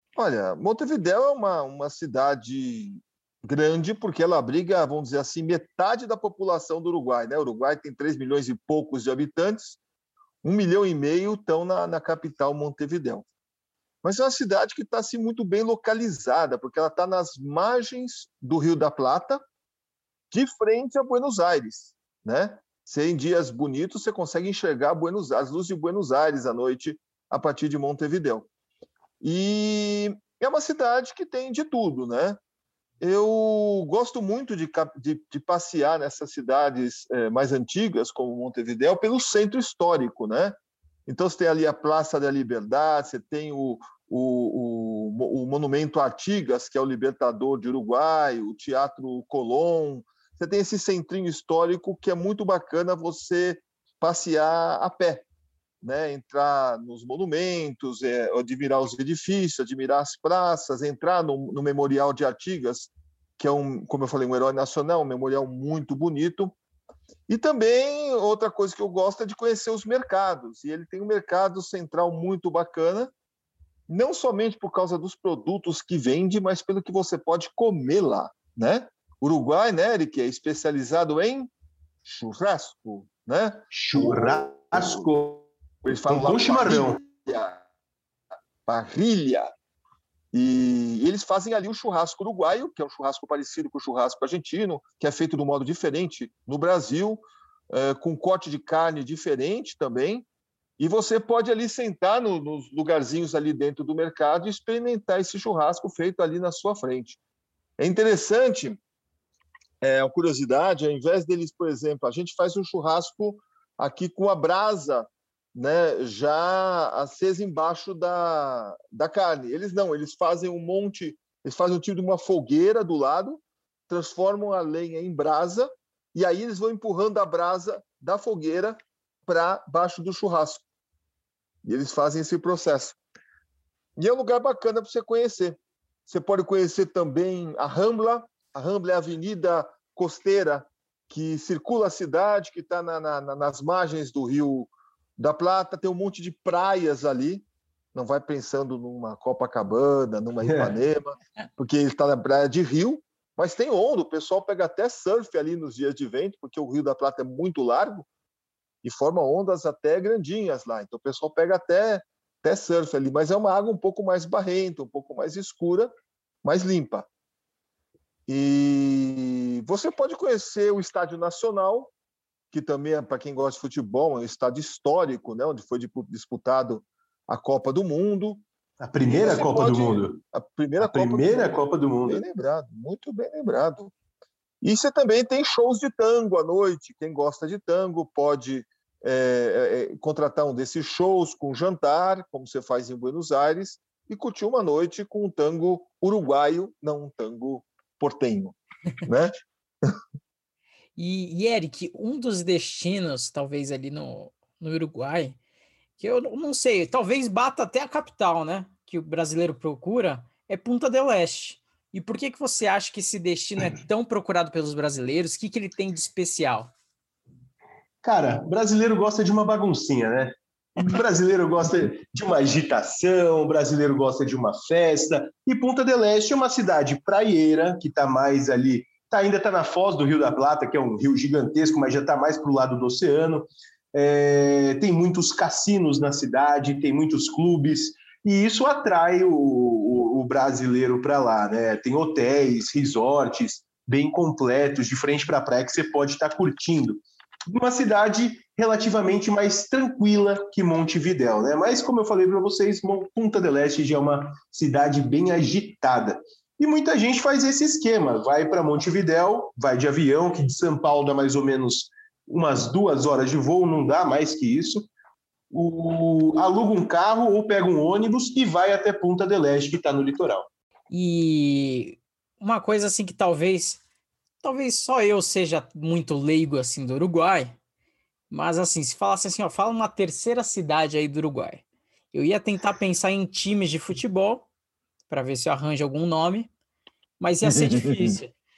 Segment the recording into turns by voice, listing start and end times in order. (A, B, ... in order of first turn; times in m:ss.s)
0:00.2-0:09.8 A
0:10.4-0:13.2 A
0:14.0-0:19.4 A
0:20.3-0:28.5 A
0:29.2-0:32.4 A
0:33.0-0:40.5 A
0:41.1-0:55.2 A
0:55.8-1:06.6 A
1:07.3-1:13.1 A
1:13.9-1:21.5 A
1:22.0-1:25.1 A
1:23.7-1:27.0 B
1:25.8-1:27.6 A
1:28.7-1:29.5 A
1:30.3-1:40.2 A
1:40.8-1:47.2 A
1:47.8-1:48.8 A
1:49.8-2:10.6 A
2:11.6-2:13.0 A
2:14.0-2:38.1 A
2:30.5-2:30.7 B
2:38.8-2:45.9 A
2:46.4-2:47.1 A
2:48.3-2:51.9 A
2:52.5-2:58.4 A
2:58.8-3:00.2 B
2:59.0-3:03.9 A
3:00.8-3:02.2 B
3:04.6-3:19.3 A
3:21.0-3:25.4 C
3:26.0-3:36.7 C
3:38.0-4:24.9 B
4:25.5-4:30.5 B
4:30.9-4:33.8 C
4:34.4-4:37.5 C
4:38.3-4:44.5 C
4:45.1-4:46.5 C
4:47.2-4:48.3 C
4:47.4-4:48.2 A